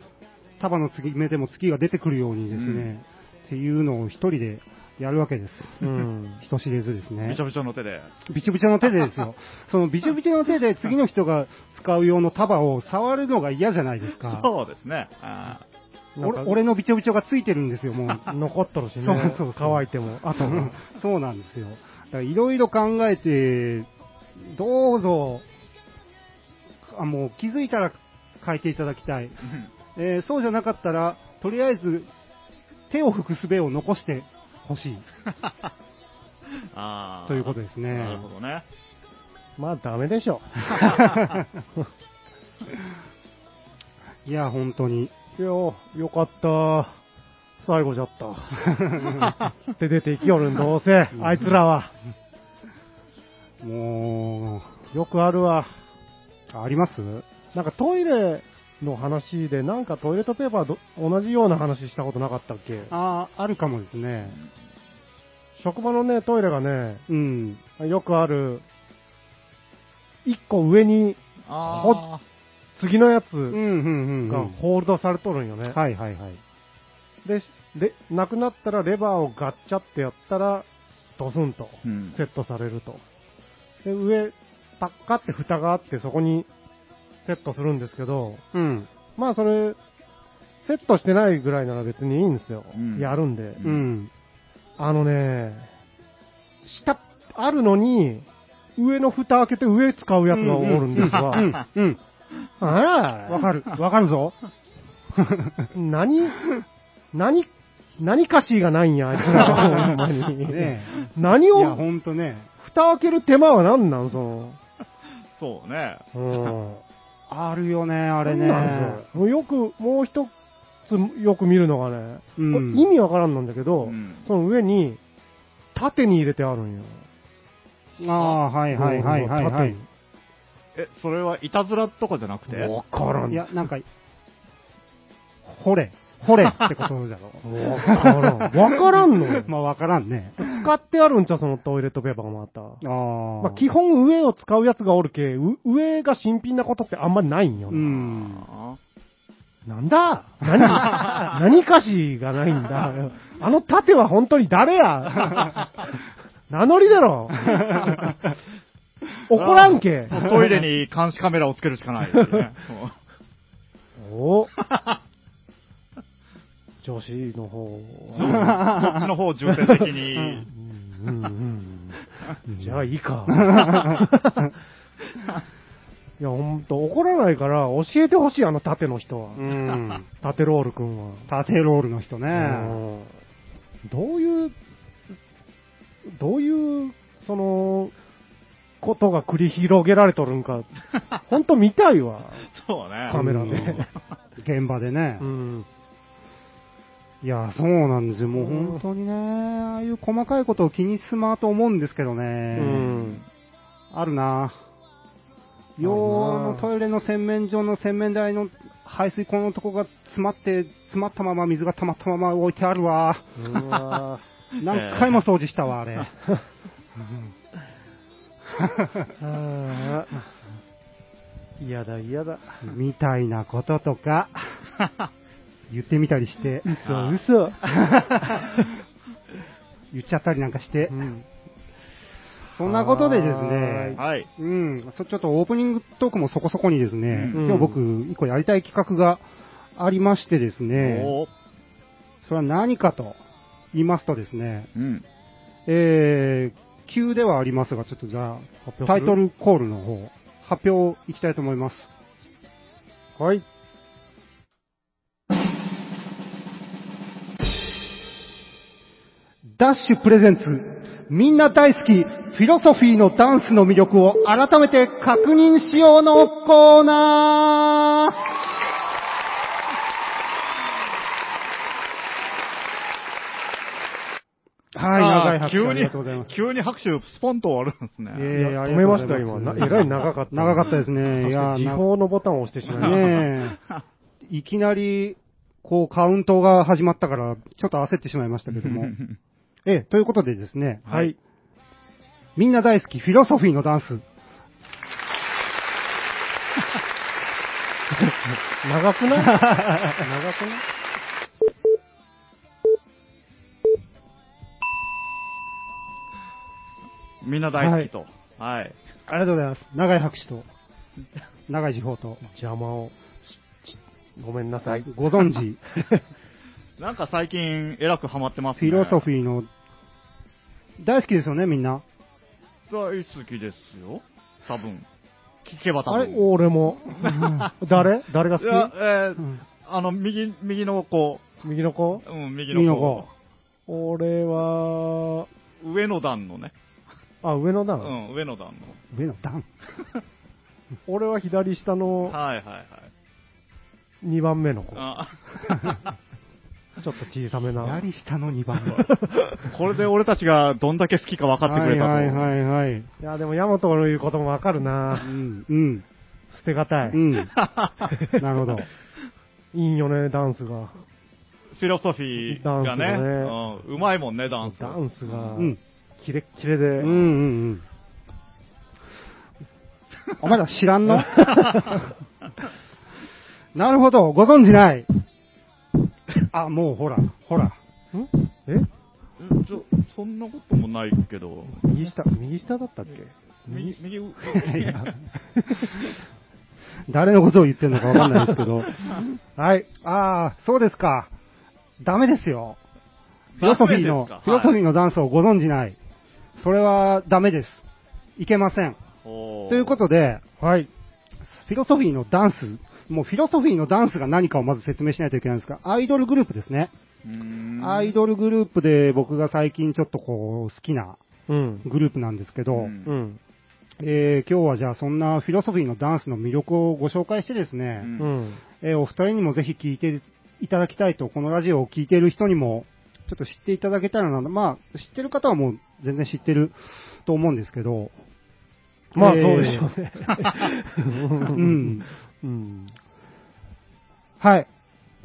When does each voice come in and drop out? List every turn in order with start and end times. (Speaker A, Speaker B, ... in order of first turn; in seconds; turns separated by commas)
Speaker A: 0.6-7.4, Speaker B: 2.5-2.9, Speaker C: 5.8-6.4, Speaker B: 7.2-8.1, Speaker A: 8.2-14.5, Speaker B: 14.2-15.6, Speaker C: 16.1-16.6, Speaker A: 16.2-18.3, Speaker C: 18.2-20.8, Speaker A: 19.0-25.4, Speaker A: 26.9-29.3, Speaker A: 29.9-32.1, Speaker A: 32.9-35.0, Speaker B: 36.6-38.6, Speaker A: 37.3-38.3, Speaker C: 39.6-41.2, Speaker B: 40.8-41.4, Speaker A: 44.2-45.1, Speaker C: 45.4-47.0, Speaker C: 47.6-48.9, Speaker A: 48.6-49.3, Speaker C: 49.7-51.9, Speaker A: 51.1-51.4, Speaker A: 53.6-54.8, Speaker C: 54.9-55.7, Speaker A: 56.5-57.3, Speaker C: 57.5-62.9, Speaker A: 62.9-64.4, Speaker C: 65.6-67.0, Speaker A: 67.1-67.6, Speaker C: 67.8-68.6, Speaker C: 70.2-72.0, Speaker B: 71.5-72.2, Speaker C: 72.8-73.6, Speaker A: 73.5-74.5, Speaker C: 74.3-75.8, Speaker A: 75.7-76.4, Speaker C: 77.2-83.0, Speaker B: 81.8-82.2, Speaker C: 83.8-86.5, Speaker C: 87.2-88.4, Speaker A: 88.5-88.9, Speaker C: 89.2-89.8, Speaker C: 90.6-93.6, Speaker B: 92.7-93.8, Speaker A: 93.6-94.1, Speaker C: 94.8-95.7, Speaker C: 96.6-101.5, Speaker A: 100.3-102.0, Speaker B: 101.0-101.5, Speaker C: 102.6-103.4, Speaker A: 103.3-104.3, Speaker A: 105.1-105.7, Speaker C: 105.7-106.5, Speaker C: 107.1-111.8, Speaker A: 109.3-110.9, Speaker A: 111.5-112.5, Speaker C: 112.6-114.6, Speaker B: 115.4-116.5, Speaker C: 116.1-116.8, Speaker A: 117.3-119.0, Speaker C: 118.2-120.3, Speaker C: 120.9-125.0, Speaker A: 122.4-122.9, Speaker B: 123.8-124.3, Speaker C: 125.7-127.1, Speaker A: 128.0-129.8, Speaker C: 128.7-129.8, Speaker B: 130.7-132.7, Speaker C: 132.5-133.5, Speaker A: 133.3-133.8, Speaker A: 135.4-140.5, Speaker C: 137.4-139.5, Speaker C: 140.4-142.8, Speaker A: 142.8-143.6, Speaker C: 143.4-148.0, Speaker A: 147.7-148.4, Speaker B: 148.1-148.8, Speaker C: 149.7-155.9, Speaker B: 150.9-151.2, Speaker C: 156.5-158.1, Speaker C: 159.3-160.6, Speaker B: 159.3-162.9, Speaker C: 162.1-162.5, Speaker C: 164.0-164.5, Speaker B: 164.6-165.0, Speaker C: 166.8-168.6, Speaker B: 168.1-170.5, Speaker A: 168.3-169.0, Speaker C: 169.6-172.0, Speaker A: 170.2-170.4, Speaker A: 172.5-172.8, Speaker C: 172.6-174.5, Speaker A: 173.3-174.1, Speaker C: 176.2-181.3, Speaker A: 179.5-180.0, Speaker A: 181.3-182.8, Speaker C: 182.3-183.1, Speaker C: 183.8-184.5, Speaker C: 186.0-187.9, Speaker C: 188.8-190.7, Speaker C: 191.3-192.4, Speaker B: 192.5-193.6, Speaker C: 193.1-193.9, Speaker A: 193.1-193.8, Speaker A: 194.4-195.2, Speaker C: 195.2-195.7, Speaker A: 197.2-202.8, Speaker C: 198.4-198.8, Speaker C: 202.5-203.2, Speaker B: 202.6-203.2, Speaker A: 203.9-204.6, Speaker A: 205.8-213.7, Speaker C: 205.8-206.7, Speaker C: 213.3-214.2, Speaker A: 214.6-216.1, Speaker B: 214.7-215.2, Speaker A: 217.0-217.3, Speaker A: 218.6-219.1, Speaker C: 219.2-220.3, Speaker C: 221.6-222.6, Speaker A: 222.6-224.6, Speaker A: 225.7-226.8, Speaker C: 226.6-227.6, Speaker B: 226.8-227.2, Speaker A: 227.7-228.4, Speaker A: 229.9-231.1, Speaker C: 230.9-231.3, Speaker A: 232.6-239.2, Speaker C: 232.6-234.0, Speaker B: 234.0-234.3, Speaker B: 237.1-237.6, Speaker C: 237.3-237.8, Speaker A: 239.8-241.1, Speaker B: 240.7-241.3, Speaker A: 242.2-243.2, Speaker A: 243.7-244.7, Speaker B: 244.7-245.0, Speaker A: 245.7-251.9, Speaker C: 248.7-249.2, Speaker C: 253.2-253.4, Speaker A: 259.6-268.2, Speaker A: 274.7-276.3, Speaker B: 274.9-278.3, Speaker A: 278.1-281.8, Speaker C: 278.3-283.3, Speaker A: 282.7-283.6, Speaker B: 282.7-283.0, Speaker A: 284.2-288.9, Speaker B: 288.6-289.2, Speaker A: 289.6-290.9, Speaker B: 290.9-291.1, Speaker C: 290.9-291.1, Speaker A: 292.4-294.0, Speaker C: 297.9-300.1, Speaker A: 299.2-300.6, Speaker B: 307.2-308.8, Speaker A: 307.6-307.9, Speaker A: 309.1-310.4, Speaker A: 311.5-312.2, Speaker C: 312.2-316.0, Speaker A: 314.9-315.6, Speaker B: 316.8-319.1, Speaker A: 318.6-319.5, Speaker A: 320.8-321.8, Speaker B: 322.7-324.9, Speaker B: 325.4-326.3, Speaker C: 325.9-328.7, Speaker B: 326.9-327.5, Speaker B: 328.3-331.4, Speaker C: 331.4-332.0, Speaker B: 332.0-333.1, Speaker A: 332.5-333.1, Speaker C: 333.7-335.3, Speaker B: 335.6-336.5, Speaker C: 337.2-337.9, Speaker B: 337.8-338.8, Speaker A: 338.9-339.4, Speaker C: 340.9-342.2, Speaker B: 342.1-342.9, Speaker C: 344.0-344.8, Speaker B: 344.7-345.9, Speaker C: 346.8-347.8, Speaker A: 347.6-348.9, Speaker C: 348.7-349.5, Speaker B: 349.4-352.3, Speaker A: 351.4-352.9, Speaker C: 353.0-355.1, Speaker A: 355.0-355.8, Speaker C: 356.3-357.0, Speaker A: 356.9-357.3, Speaker B: 357.4-357.9, Speaker C: 357.9-358.2, Speaker A: 358.1-358.7, Speaker C: 359.5-360.8, Speaker B: 361.5-365.5, Speaker C: 362.2-363.4, Speaker C: 364.4-366.9, Speaker A: 366.8-367.6, Speaker A: 370.2-371.8, Speaker C: 371.2-371.6, Speaker A: 373.5-374.9, Speaker A: 376.2-377.6, Speaker C: 377.9-378.7, Speaker B: 379.2-381.7, Speaker C: 381.5-383.8, Speaker B: 383.5-384.9, Speaker A: 384.2-384.9, Speaker C: 385.4-385.7, Speaker A: 386.9-389.0, Speaker C: 389.4-389.7, Speaker A: 389.7-391.1, Speaker A: 391.8-392.6, Speaker B: 393.4-394.6, Speaker A: 393.4-395.8, Speaker A: 396.4-397.6, Speaker A: 398.2-398.8, Speaker B: 399.0-399.8, Speaker A: 399.5-400.2, Speaker C: 400.4-400.7, Speaker A: 401.3-406.7, Speaker B: 407.0-407.9, Speaker A: 407.6-411.0, Speaker C: 411.3-411.6, Speaker A: 411.6-412.7, Speaker B: 412.5-413.0, Speaker C: 412.8-413.2, Speaker A: 413.8-417.9, Speaker B: 417.8-418.1, Speaker C: 418.0-418.4, Speaker A: 418.6-427.9, Speaker A: 428.9-429.6, Speaker C: 428.9-432.8, Speaker A: 431.3-431.9, Speaker A: 434.2-434.5